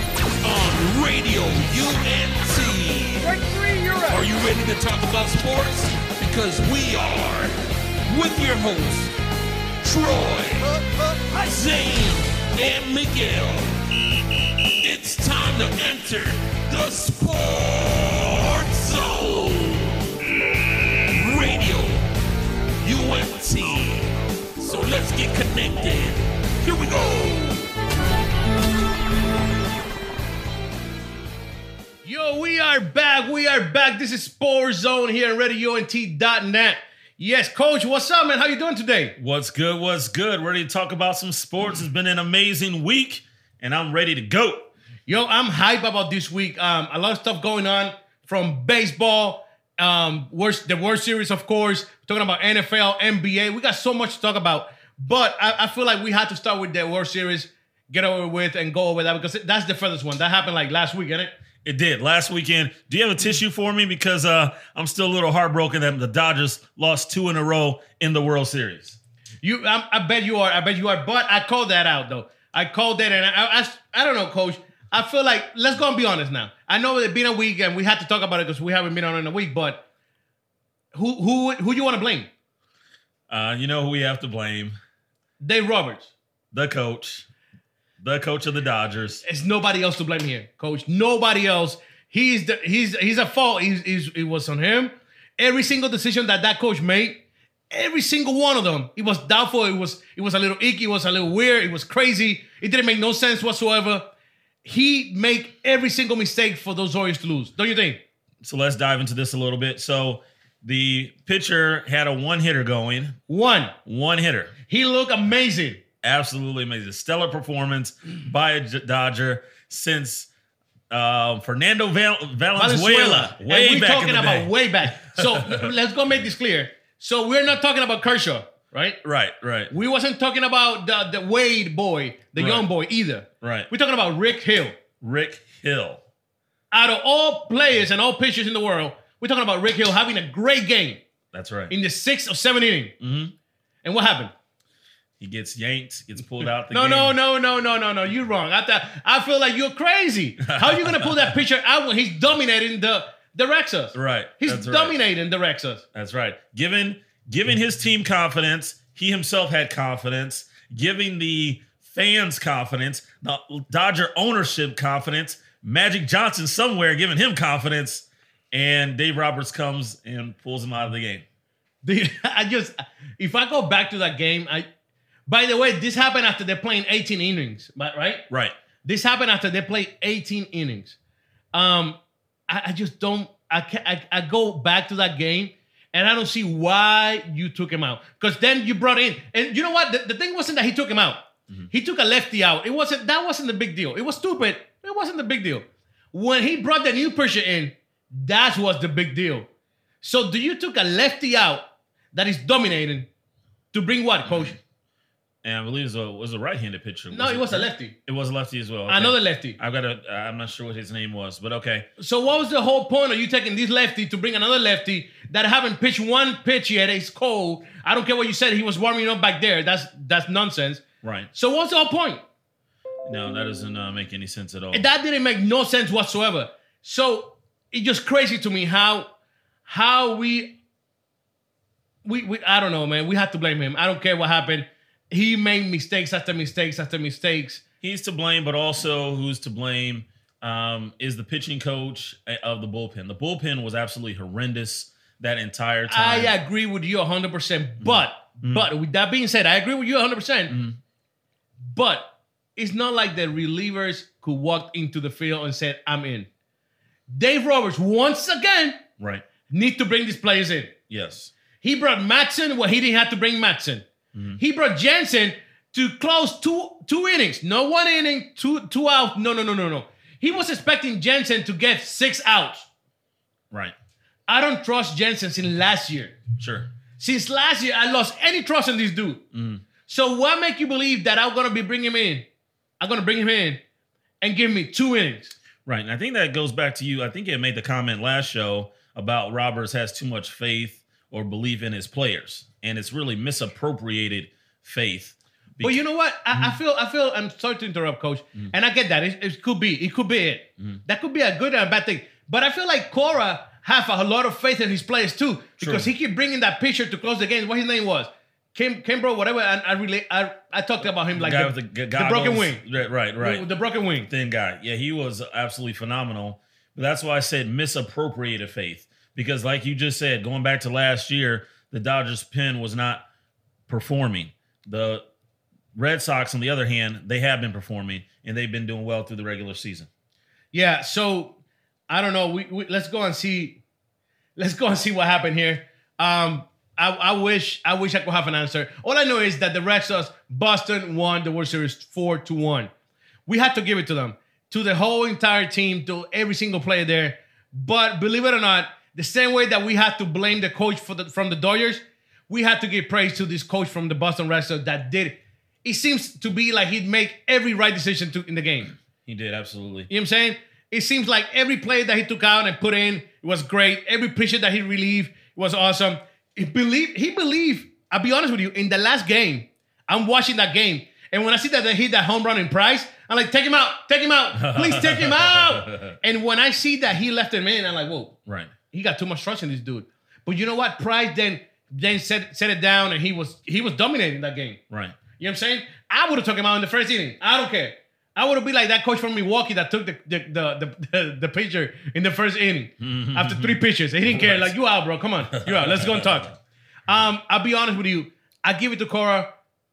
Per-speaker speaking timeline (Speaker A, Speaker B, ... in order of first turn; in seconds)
Speaker A: 0.4-3.4, 4.1-7.5, 8.1-9.1, 9.8-13.8, 14.8-20.3, 20.9-22.0, 22.8-27.7
Speaker B: 32.0-39.1, 45.1-61.3, 69.4-79.8, 80.9-82.3, 85.4-86.1, 89.2-104.1, 104.6-108.0, 113.3-113.7, 114.7-115.8, 122.5-129.0, 129.7-134.8, 136.7-141.0, 141.7-142.9, 143.8-144.3, 146.6-155.8, 171.8-174.7, 175.3-178.2, 178.8-180.9, 181.5-199.5, 200.0-203.1, 203.7-204.6, 207.1-207.9, 208.9-209.6, 212.0-222.2, 224.7-229.1, 229.7-230.6, 232.0-237.6, 245.9-250.6, 251.7-256.3, 257.1-258.8, 259.5-260.7, 261.6-263.8, 264.4-272.6, 274.3-276.1, 277.0-279.2, 279.9-282.2, 282.8-283.6, 284.2-285.3, 295.6-312.6, 313.2-314.1, 330.5-331.4, 331.9-333.6, 334.4-342.7, 343.3-358.7, 359.9-378.1, 378.7-384.6, 385.2-396.3, 396.9-399.3
Speaker C: 39.2-44.7, 61.6-69.0, 83.3-84.8, 86.5-87.2, 88.0-89.2, 108.4-113.2, 113.8-114.5, 116.0-120.3, 120.9-125.7, 129.0-129.7, 132.3-132.7, 133.4-133.7, 135.0-136.0, 141.3-141.7, 143.0-143.3, 145.2-147.2, 150.4-151.4, 153.9-155.0, 155.9-171.2, 178.3-178.5, 205.4-211.9, 221.0-221.3, 223.0-224.8, 237.8-246.3, 247.8-248.7, 250.5-250.8, 259.0-259.2, 260.9-261.3, 264.1-264.4, 276.4-276.7, 279.3-279.6, 285.6-295.8, 296.3-296.6, 305.6-305.9, 311.1-313.5, 314.1-323.0, 323.7-325.0, 325.7-329.9, 359.1-359.9, 374.3-376.0, 378.2-378.5, 384.7-385.0, 392.8-394.5, 395.3-396.4